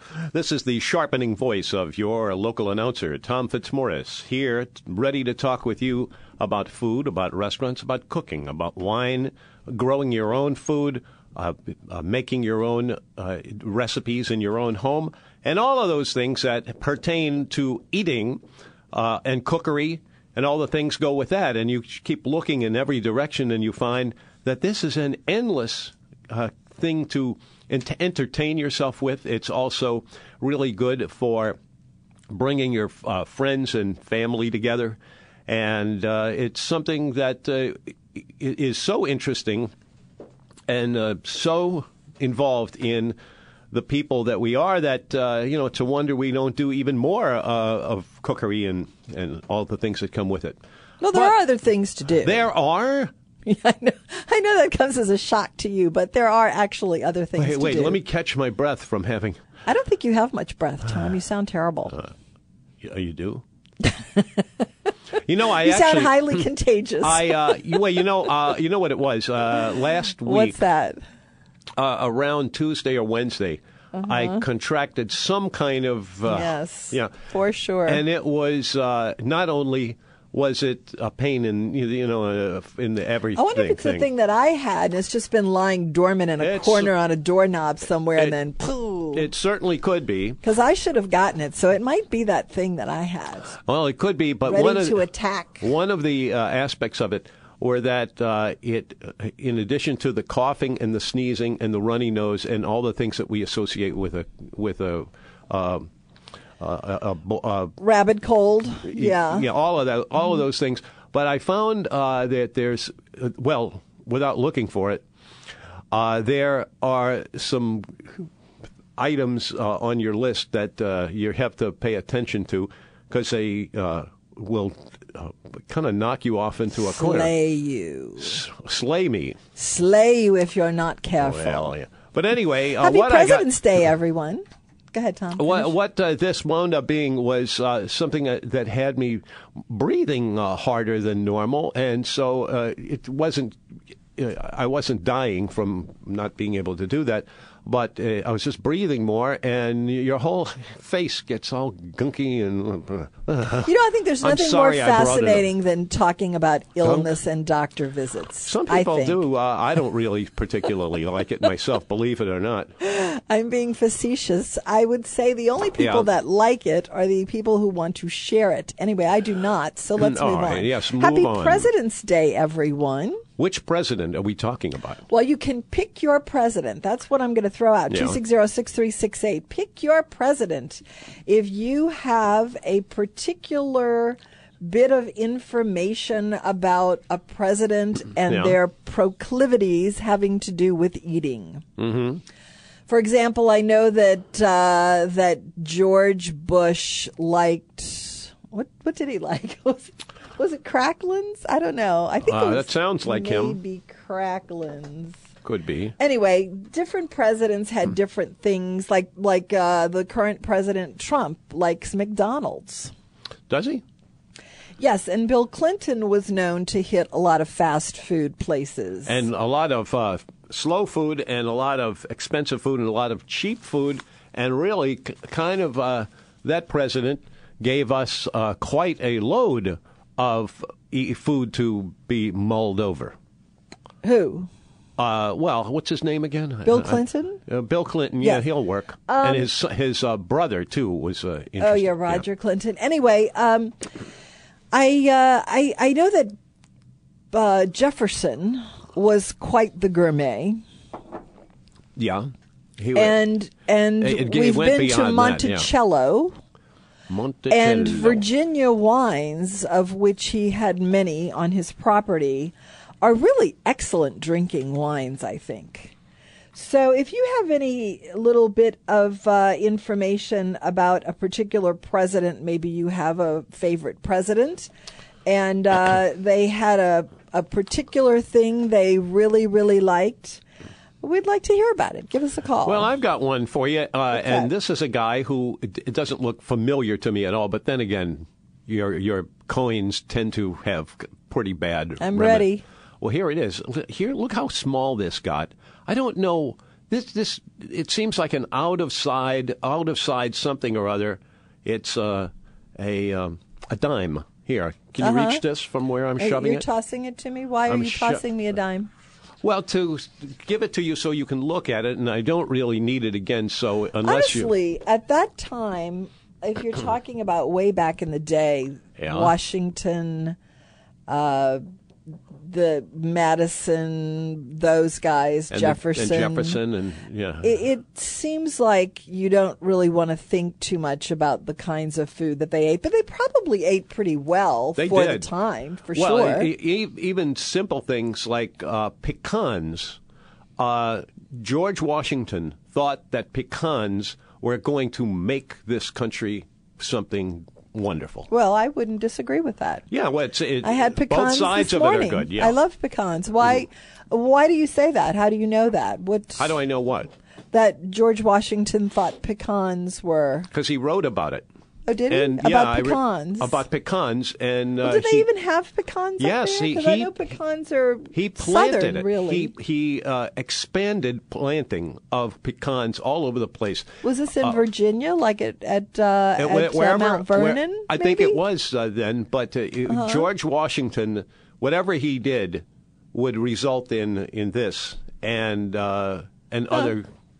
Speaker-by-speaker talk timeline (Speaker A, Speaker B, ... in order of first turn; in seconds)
Speaker A: 0.3-18.4, 18.9-31.6, 32.3-39.7, 40.7-43.1, 43.7-50.6, 52.2-53.1, 57.4-59.4, 62.8-63.4, 65.2-66.4, 67.0-70.6, 71.8-77.1, 77.8-84.0, 86.4-86.9, 89.1-90.4, 93.7-95.0, 95.6-105.9, 106.6-107.8, 108.9-115.0, 115.9-118.3, 119.0-127.3, 128.2-129.4, 131.2-133.5, 135.3-143.6, 144.2-153.7, 154.2-155.5, 156.8-157.1, 158.4-162.7, 165.8-166.1, 170.0-171.7, 173.4-175.0, 177.9-178.2, 188.3-188.6, 191.8-192.2, 202.2-203.6, 205.4-205.9, 213.5-213.8, 219.1-233.1, 235.0-242.2, 251.9-253.2, 254.0-255.7, 257.1-258.2, 282.6-292.5, 293.0-306.6, 307.7-308.2, 309.4-314.5, 319.0-319.3, 325.5-327.6, 334.8-335.3, 335.9-340.0, 340.6-348.3, 349.9-352.6, 356.4-357.1, 360.5-361.4, 362.1-365.2, 366.2-367.2, 368.1-373.9, 376.4-387.1
Speaker B: 51.0-52.5, 53.4-58.0, 59.6-62.0, 63.8-64.4, 65.5-67.8, 70.2-71.0, 73.9-74.4, 76.3-78.0, 83.3-89.3, 90.4-93.6, 94.5-95.7, 107.8-109.4, 126.7-128.4, 129.6-131.7, 132.8-135.7, 153.6-159.2, 162.8-173.2, 175.1-191.6, 192.9-205.2, 206.0-212.9, 214.8-219.2, 234.0-234.5, 236.6-237.4, 239.1-239.5, 241.6-243.9, 244.7-246.3, 247.3-250.6, 252.9-256.4, 257.5-265.9, 266.5-274.7, 275.2-280.4, 281.0-282.9, 284.1-284.5, 292.0-292.6, 305.0-305.4, 306.2-308.9, 314.0-320.4, 321.1-321.6, 322.4-326.6, 327.4-336.5, 348.3-349.8, 350.6-356.5, 357.5-360.5, 361.9-363.6, 364.8-369.5, 374.0-378.4, 379.9-380.2